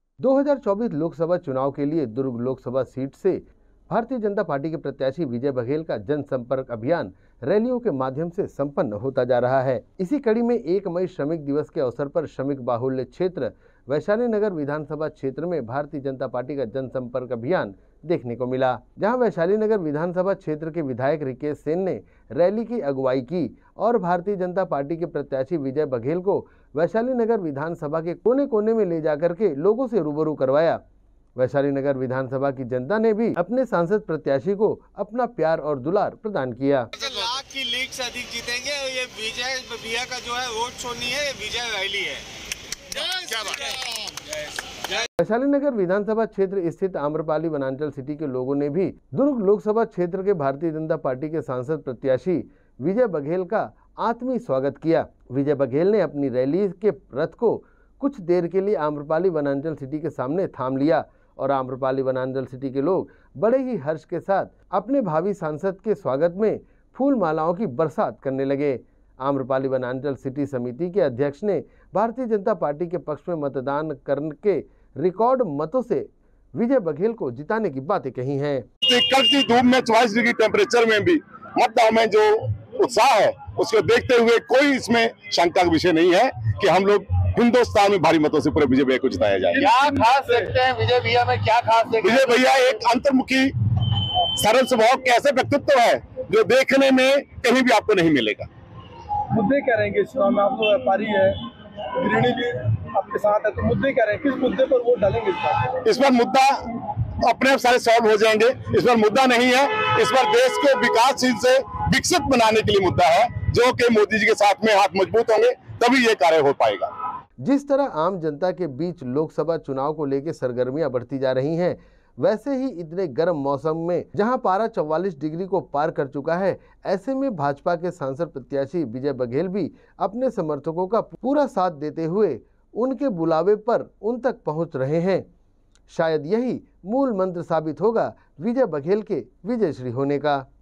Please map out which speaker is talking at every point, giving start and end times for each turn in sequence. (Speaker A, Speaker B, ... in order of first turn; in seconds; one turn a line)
Speaker A: 0.2-30.8
Speaker A: 31.4-36.9
Speaker B: 37.0-42.2
Speaker B: 42.9-44.0
Speaker A: 45.2-78.7
Speaker C: 78.8-89.7
Speaker D: 89.5-90.5
Speaker B: 89.5-92.7
Speaker C: 92.0-98.5
Speaker D: 99.3-101.4
Speaker D: 101.9-105.8
Speaker C: 105.8-116.9
Speaker A: 117.4-135.2
Speaker A: 135.9-140.5